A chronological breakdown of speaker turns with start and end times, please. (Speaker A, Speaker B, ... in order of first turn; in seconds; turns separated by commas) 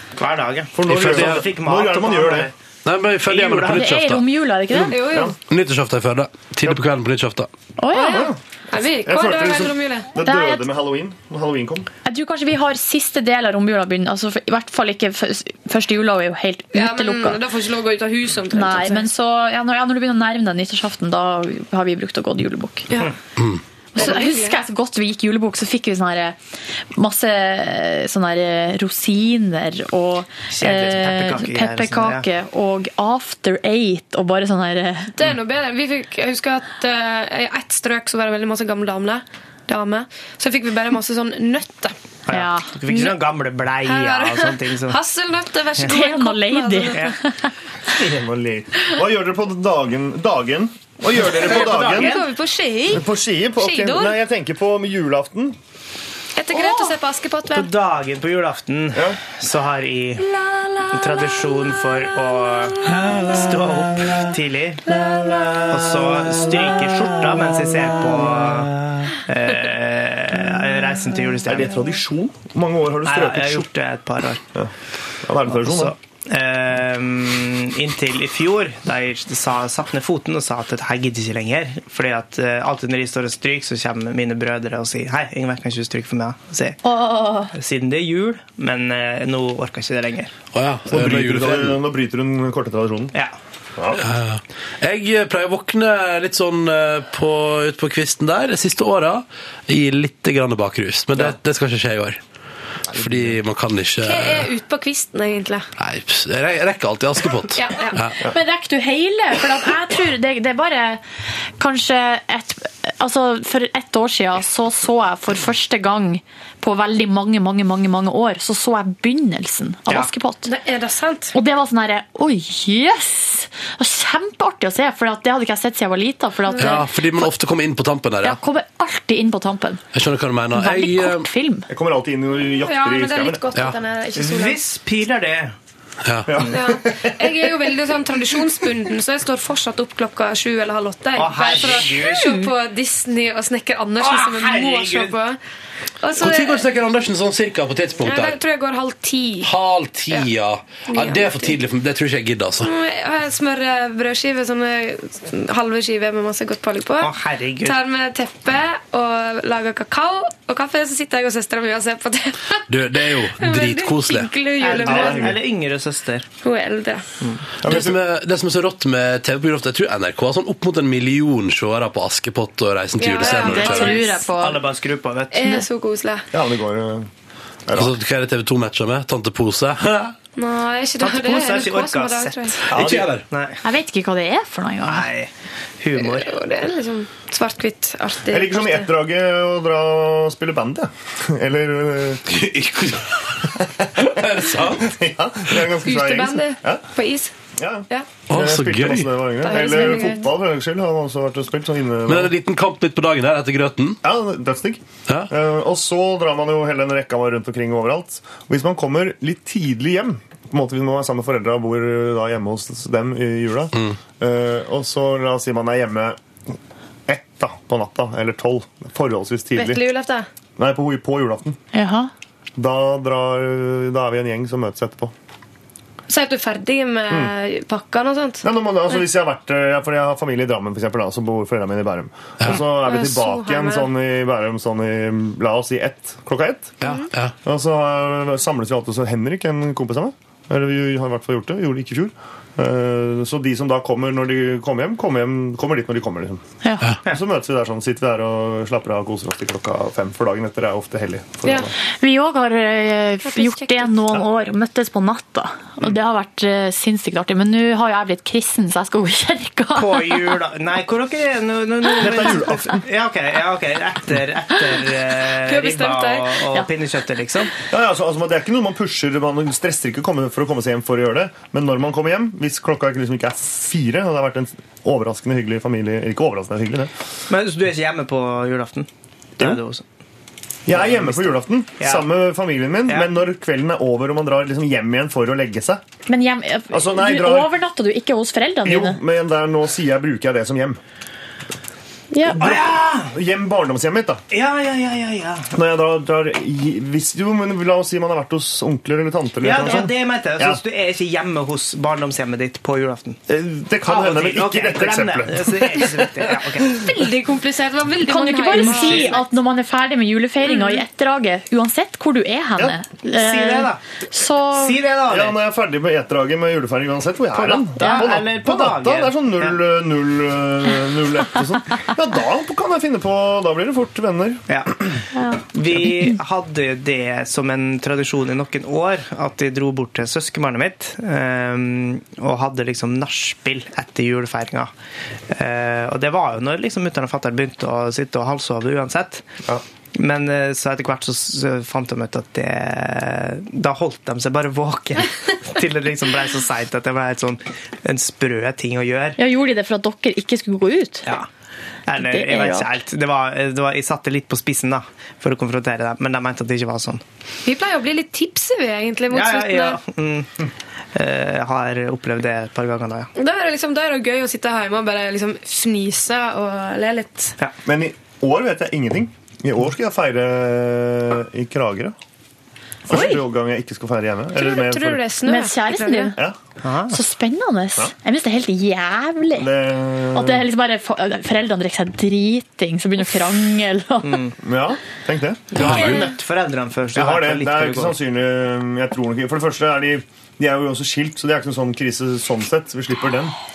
Speaker A: 0.1-2.5, Speaker B: 0.7-2.5, Speaker C: 0.8-1.5, Speaker C: 2.8-7.5, Speaker A: 3.2-3.9, Speaker D: 3.7-5.1, Speaker E: 4.8-5.3, Speaker B: 5.0-5.3, Speaker D: 7.8-8.3, Speaker E: 7.9-10.2, Speaker B: 8.1-8.4, Speaker B: 9.0-11.9, Speaker D: 10.2-10.7, Speaker D: 12.0-17.4, Speaker E: 16.7-19.1, Speaker D: 18.5-22.9, Speaker D: 23.9-26.4, Speaker E: 23.9-24.6, Speaker D: 26.9-35.1, Speaker A: 30.5-32.3, Speaker E: 35.1-41.9, Speaker A: 42.2-45.0, Speaker D: 42.3-42.8, Speaker E: 43.8-47.1, Speaker D: 45.8-47.5, Speaker A: 46.9-47.1, Speaker B: 47.9-52.2, Speaker A: 51.2-52.3, Speaker E: 51.3-54.2, Speaker B: 52.9-55.6, Speaker E: 56.4-57.7, Speaker A: 57.5-60.2, Speaker A: 60.9-65.0, Speaker A: 65.6-71.8, Speaker B: 71.4-73.7, Speaker A: 73.0-74.4, Speaker B: 75.2-75.9, Speaker A: 75.5-90.3, Speaker D: 86.8-87.5, Speaker C: 90.5-91.8, Speaker B: 90.9-93.1, Speaker B: 93.8-94.0, Speaker C: 93.9-102.2, Speaker C: 102.9-104.5, Speaker E: 104.0-105.7, Speaker C: 105.8-108.2, Speaker E: 107.5-108.0, Speaker D: 108.2-111.0, Speaker D: 111.6-120.5, Speaker E: 120.4-121.3, Speaker D: 121.3-127.3, Speaker E: 126.5-126.8, Speaker C: 126.5-128.4, Speaker D: 128.2-129.8, Speaker C: 129.9-131.3, Speaker D: 130.5-131.7, Speaker B: 131.7-133.5, Speaker E: 132.6-134.6, Speaker A: 134.2-135.5, Speaker C: 136.0-136.4, Speaker B: 136.3-137.5, Speaker E: 136.5-145.4, Speaker A: 141.1-142.4, Speaker A: 144.0-145.1, Speaker E: 146.0-146.6, Speaker C: 146.2-148.4, Speaker E: 148.0-149.5, Speaker C: 149.4-152.7, Speaker E: 150.9-151.6, Speaker E: 152.6-162.6, Speaker A: 157.0-157.8, Speaker C: 162.7-164.3, Speaker E: 163.2-165.3, Speaker A: 164.6-166.3, Speaker B: 164.7-165.4, Speaker E: 166.4-167.0, Speaker A: 167.2-167.4, Speaker B: 167.6-168.0, Speaker C: 167.6-174.0, Speaker E: 173.0-174.1, Speaker D: 173.2-174.6, Speaker A: 173.8-175.6, Speaker E: 175.3-176.2, Speaker B: 176.3-177.1, Speaker B: 177.7-177.9, Speaker C: 177.7-180.1, Speaker E: 180.4-182.6, Speaker A: 181.0-183.6, Speaker C: 182.7-183.2, Speaker B: 182.7-183.1, Speaker D: 183.6-185.1, Speaker A: 184.8-186.3, Speaker E: 185.9-188.9, Speaker B: 188.3-192.2, Speaker C: 192.3-194.9, Speaker B: 194.7-196.8, Speaker E: 195.8-197.3, Speaker B: 197.6-202.3, Speaker C: 198.3-199.3, Speaker E: 199.4-200.3, Speaker C: 202.1-204.0, Speaker B: 204.0-216.2, Speaker C: 205.1-205.3, Speaker B: 217.1-219.8, Speaker E: 219.5-220.3, Speaker B: 220.6-221.6, Speaker D: 221.7-222.1, Speaker B: 222.6-225.1, Speaker E: 226.1-229.1, Speaker B: 228.4-236.8, Speaker E: 232.5-233.9, Speaker C: 236.8-237.3, Speaker B: 237.4-246.4, Speaker B: 247.0-251.7, Speaker E: 251.4-251.7, Speaker D: 252.0-260.4, Speaker E: 253.2-253.9, Speaker A: 259.7-267.5, Speaker B: 261.9-262.8, Speaker E: 265.4-266.4, Speaker B: 267.7-276.9, Speaker A: 277.3-279.8, Speaker B: 280.6-285.8, Speaker A: 280.7-282.1, Speaker A: 282.9-283.2, Speaker D: 286.1-289.0, Speaker B: 286.7-287.6, Speaker B: 288.6-290.8, Speaker D: 292.1-292.5, Speaker A: 292.3-293.1, Speaker B: 292.3-294.2, Speaker A: 294.3-295.5, Speaker B: 295.5-300.6, Speaker A: 299.4-303.2, Speaker B: 303.3-306.4, Speaker A: 303.8-306.9, Speaker E: 306.6-309.2, Speaker D: 308.0-314.8, Speaker A: 308.4-309.2, Speaker E: 310.4-310.8, Speaker A: 313.1-313.8, Speaker A: 314.5-315.4, Speaker B: 315.1-324.5, Speaker A: 317.3-319.6, Speaker D: 317.8-318.1, Speaker A: 324.5-334.7, Speaker A: 335.3-339.3, Speaker A: 339.9-349.2, Speaker D: 349.2-351.1, Speaker A: 351.9-357.0, Speaker D: 351.9-352.7, Speaker E: 357.4-359.8, Speaker A: 359.1-363.1, Speaker E: 363.1-367.4, Speaker B: 367.6-371.9, Speaker B: 372.9-375.1, Speaker E: 372.9-373.2, Speaker E: 374.3-376.2, Speaker D: 375.2-376.2, Speaker A: 376.6-377.0, Speaker D: 376.9-379.5, Speaker B: 379.4-380.4, Speaker D: 380.1-384.2, Speaker A: 384.0-384.3, Speaker B: 384.4-385.7, Speaker A: 385.5-388.0, Speaker C: 385.5-386.1, Speaker D: 385.6-385.9, Speaker B: 386.9-393.3